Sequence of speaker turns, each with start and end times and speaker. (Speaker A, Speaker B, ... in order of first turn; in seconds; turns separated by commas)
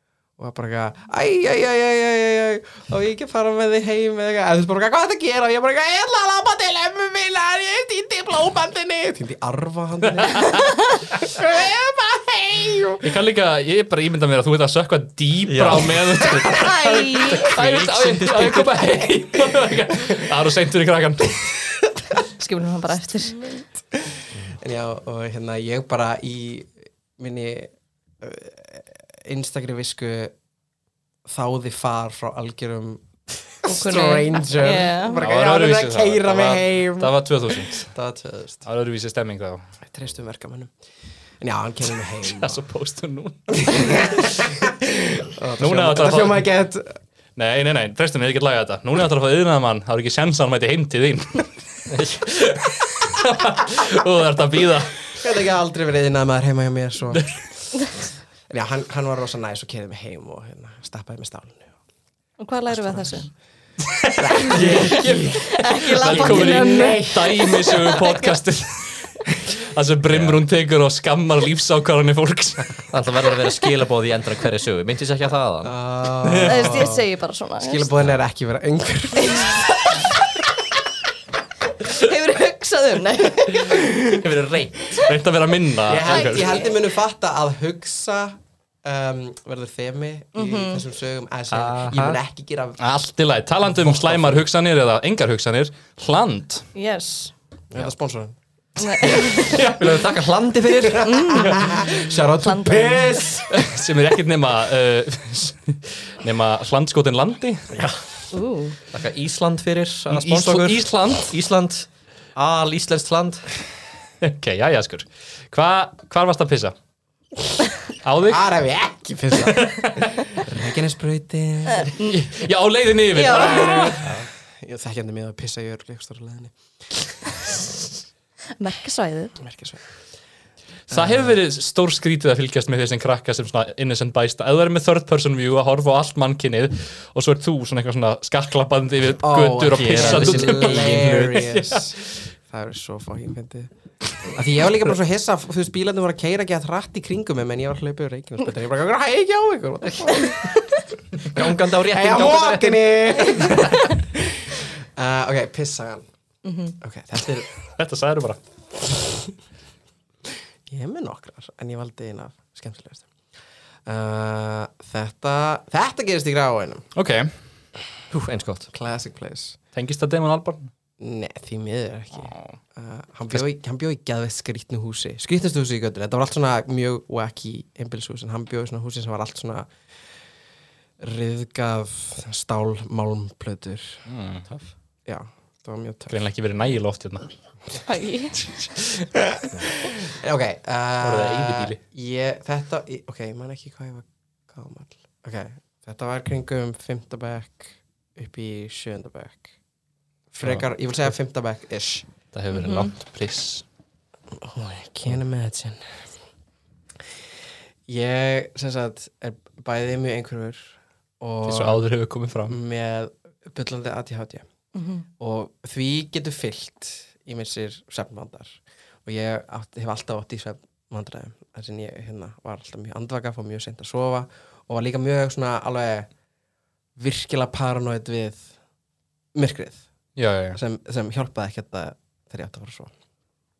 Speaker A: 0.4-13.1, Speaker B: 10.2-10.6, Speaker B: 13.0-21.5, Speaker C: 15.4-16.4, Speaker D: 16.5-17.5, Speaker C: 17.4-18.9, Speaker D: 22.4-23.6, Speaker A: 23.9-30.3, Speaker A: 31.2-38.6, Speaker D: 33.6-35.2, Speaker B: 35.2-37.9, Speaker B: 38.6-39.6, Speaker A: 39.8-40.7, Speaker A: 41.4-42.6, Speaker B: 42.2-44.2, Speaker A: 43.5-47.0, Speaker B: 45.6-46.4, Speaker B: 47.4-51.5, Speaker C: 51.9-52.2, Speaker B: 52.1-55.1, Speaker A: 55.2-57.3, Speaker A: 58.5-61.7, Speaker D: 62.4-63.3, Speaker B: 63.9-72.8, Speaker A: 64.2-67.5, Speaker C: 64.5-65.1, Speaker D: 65.5-68.3, Speaker C: 70.1-70.4, Speaker C: 72.9-75.7, Speaker A: 75.6-77.0, Speaker C: 76.2-76.5, Speaker D: 76.4-77.9, Speaker A: 77.6-80.2, Speaker D: 81.8-83.8, Speaker A: 83.5-84.2, Speaker C: 84.0-85.0, Speaker B: 84.9-86.5, Speaker A: 85.8-92.8, Speaker D: 86.0-86.7, Speaker D: 90.3-90.8, Speaker C: 91.5-92.2, Speaker B: 92.8-96.7, Speaker D: 96.7-97.3, Speaker A: 97.7-98.3, Speaker D: 98.8-99.6, Speaker B: 99.4-99.8, Speaker C: 99.4-101.2, Speaker A: 100.5-103.6, Speaker D: 101.0-103.3, Speaker B: 103.5-107.7, Speaker C: 107.7-108.0, Speaker D: 108.3-108.8, Speaker C: 108.9-113.5, Speaker B: 110.1-111.3, Speaker B: 114.2-116.7, Speaker B: 118.0-118.5, Speaker A: 118.2-122.0, Speaker B: 119.4-120.2, Speaker B: 121.9-124.1, Speaker D: 123.1-124.0, Speaker A: 123.3-126.5, Speaker D: 128.6-129.3, Speaker A: 129.4-129.8, Speaker B: 130.9-141.4, Speaker A: 130.9-131.3, Speaker A: 139.2-143.7, Speaker C: 139.9-141.7, Speaker A: 144.3-150.5, Speaker C: 151.2-153.7, Speaker A: 151.3-156.1, Speaker D: 156.4-156.7, Speaker A: 156.8-157.5, Speaker B: 157.8-158.4, Speaker A: 158.9-159.3, Speaker A: 160.7-163.1, Speaker A: 163.8-166.9, Speaker B: 166.9-167.3, Speaker C: 168.1-168.7, Speaker A: 168.7-169.6, Speaker B: 169.7-170.7, Speaker A: 171.0-179.7, Speaker B: 172.3-172.6, Speaker A: 181.0-184.0, Speaker B: 184.1-184.4, Speaker A: 185.1-186.2, Speaker B: 186.1-187.3, Speaker D: 187.8-188.3, Speaker A: 188.8-199.5, Speaker B: 191.0-191.8, Speaker A: 200.3-202.1, Speaker B: 202.3-203.6, Speaker D: 202.5-202.9, Speaker A: 204.3-205.8, Speaker A: 207.9-211.8, Speaker B: 211.4-212.6, Speaker A: 212.5-214.4, Speaker D: 214.7-215.0, Speaker A: 215.2-226.1, Speaker A: 226.9-228.5, Speaker A: 229.3-229.8, Speaker B: 230.2-230.6, Speaker A: 230.5-232.9